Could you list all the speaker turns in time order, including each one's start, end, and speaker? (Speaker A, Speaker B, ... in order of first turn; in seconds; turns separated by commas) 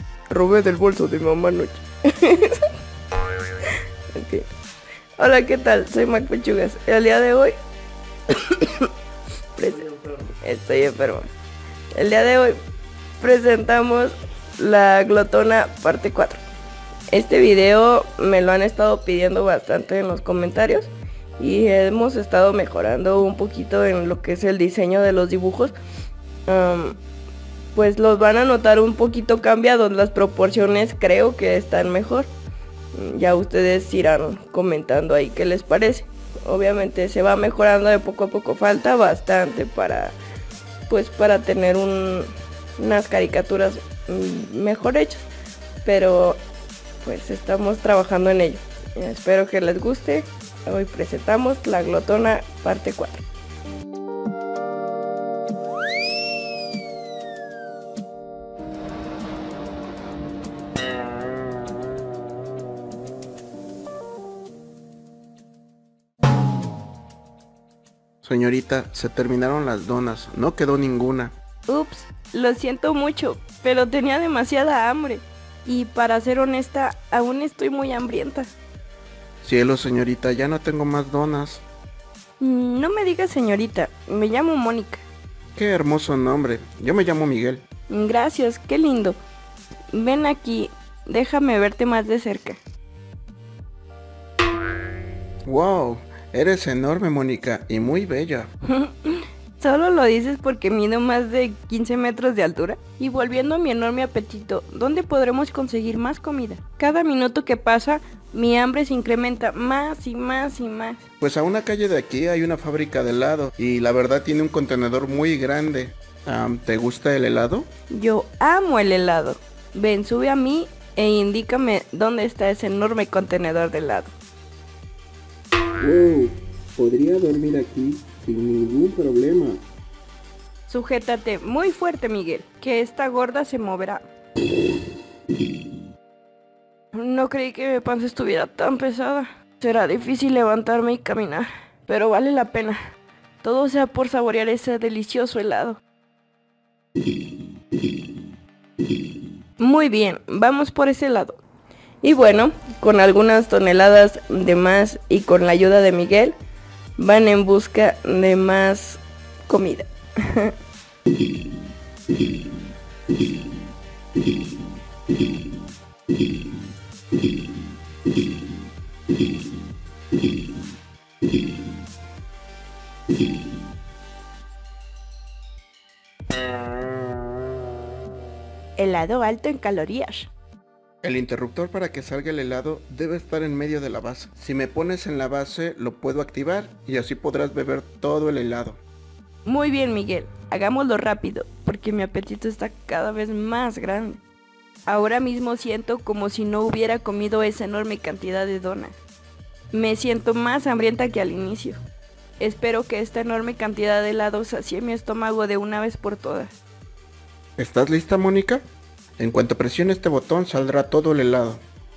Speaker A: 0.3-2.6, Speaker A: 4.1-4.5, Speaker A: 5.2-7.5, Speaker A: 8.3-8.9, Speaker A: 9.5-11.3, Speaker A: 11.9-12.6, Speaker A: 13.2-16.4, Speaker A: 17.1-25.7, Speaker A: 26.5-27.0, Speaker A: 27.7-32.3, Speaker A: 32.9-40.1, Speaker A: 40.9-45.3, Speaker A: 45.8-46.4, Speaker A: 47.0-53.2, Speaker B: 68.2-71.3, Speaker A: 71.7-78.5, Speaker B: 79.4-81.6, Speaker A: 82.4-85.0, Speaker B: 85.5-87.6, Speaker A: 87.9-89.2, Speaker A: 89.9-92.6, Speaker B: 95.5-98.5, Speaker A: 98.7-111.0, Speaker B: 111.2-117.7, Speaker A: 117.9-124.1, Speaker B: 125.8-129.6, Speaker A: 130.7-134.0, Speaker A: 136.9-142.8, Speaker A: 143.4-145.8, Speaker A: 149.6-151.4, Speaker A: 152.0-156.3, Speaker A: 157.0-160.5, Speaker A: 178.8-180.3, Speaker B: 181.0-188.8, Speaker A: 189.4-194.2, Speaker A: 194.9-198.9, Speaker A: 199.7-201.8, Speaker A: 202.4-206.5, Speaker B: 207.6-208.6, Speaker B: 209.2-211.6